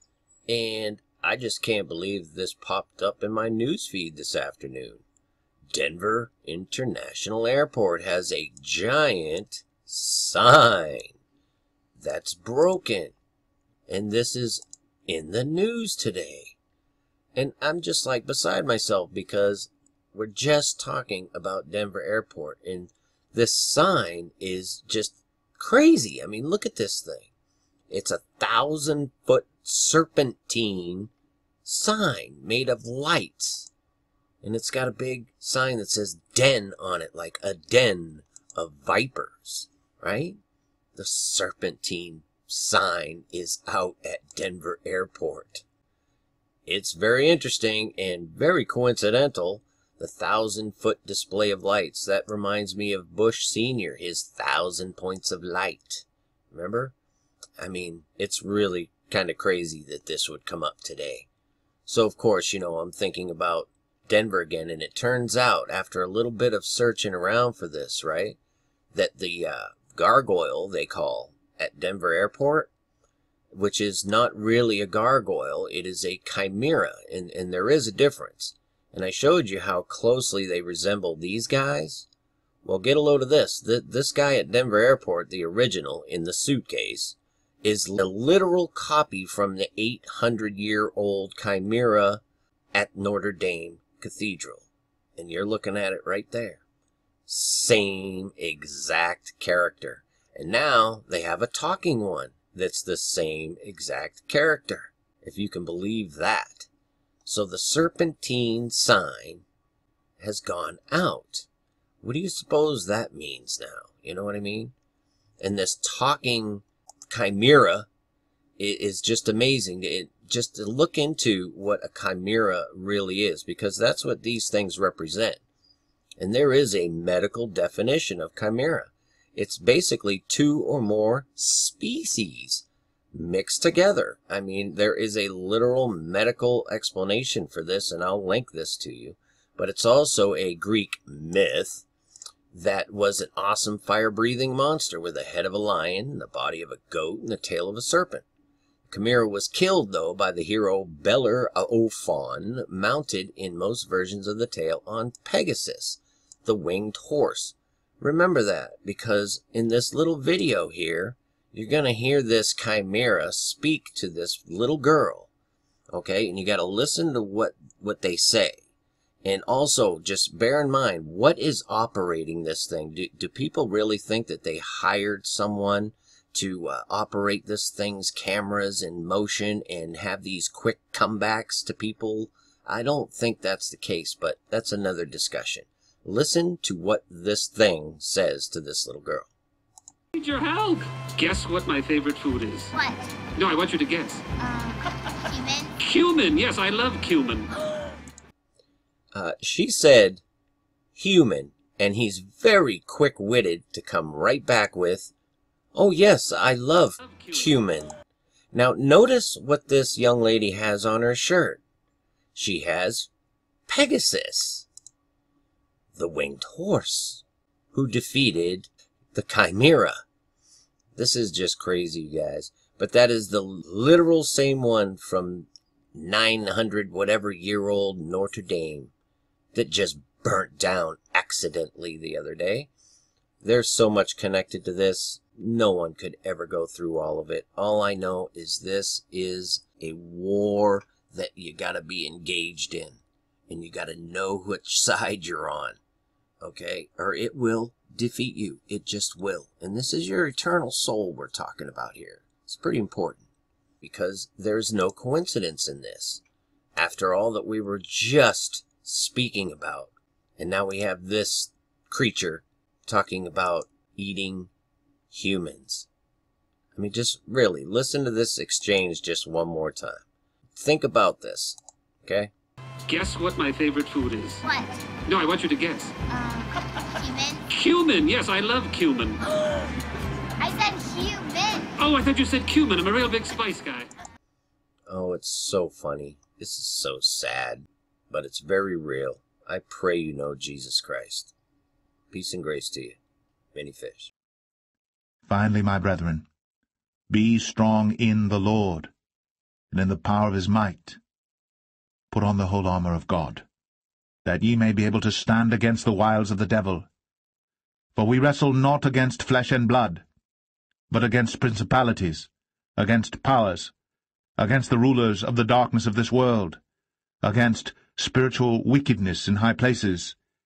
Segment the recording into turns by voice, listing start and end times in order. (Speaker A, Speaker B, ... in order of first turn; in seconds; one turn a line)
Speaker A: 0.5-5.0
Speaker A: 5.7-11.2
Speaker A: 12.0-13.2
Speaker A: 13.9-16.6
Speaker A: 17.4-27.3
Speaker A: 27.9-31.1
Speaker A: 31.6-33.7
Speaker A: 34.4-40.4
Speaker A: 41.0-45.6
Speaker A: 46.7-57.0
Speaker A: 57.6-61.3
Speaker A: 61.9-68.4
Speaker A: 68.9-72.7
Speaker A: 73.5-82.1
Speaker A: 82.6-92.2
Speaker A: 92.7-96.6
Speaker A: 97.3-106.7
Speaker A: 107.2-109.5
Speaker A: 110.2-111.5
Speaker A: 112.0-114.7
Speaker A: 115.4-117.9
Speaker A: 118.6-125.4
Speaker A: 126.2-141.8
Speaker A: 142.5-148.2
Speaker A: 148.9-165.3
Speaker A: 165.9-168.6
Speaker A: 169.2-189.3
Speaker B: 190.2-192.7
Speaker C: 192.7-193.2
Speaker B: 193.3-194.2
Speaker C: 194.4-195.7
Speaker B: 195.8-197.5
Speaker A: 199.1-200.2
Speaker A: 201.0-205.1
Speaker A: 205.7-207.9
Speaker B: 207.1-207.5
Speaker A: 208.5-211.6
Speaker A: 212.3-213.1
Speaker A: 213.7-214.7
Speaker A: 215.9-220.0
Speaker A: 221.0-228.9
Speaker A: 229.5-232.7
Speaker A: 233.4-245.8
Speaker A: 246.4-253.2
Speaker A: 253.8-256.2
Speaker A: 256.8-264.5
Speaker A: 265.1-265.9
Speaker A: 266.8-270.1
Speaker A: 270.6-272.3
Speaker B: 272.9-274.4
Speaker C: 274.4-274.8
Speaker B: 275.1-275.9
Speaker C: 276.1-277.4
Speaker B: 277.5-279.2
Speaker C: 279.3-279.7
Speaker C: 280.4-281.7
Speaker B: 281.8-283.9
Speaker A: 284.9-291.3
Speaker A: 292.1-293.0
Speaker A: 293.5-294.1
Speaker D: 295.3-296.3
Speaker D: 297.1-298.9
Speaker D: 299.7-301.0
Speaker D: 302.1-303.4
Speaker D: 304.2-306.9
Speaker D: 307.9-310.1
Speaker D: 310.9-313.7
Speaker D: 314.4-316.6
Speaker D: 317.2-320.2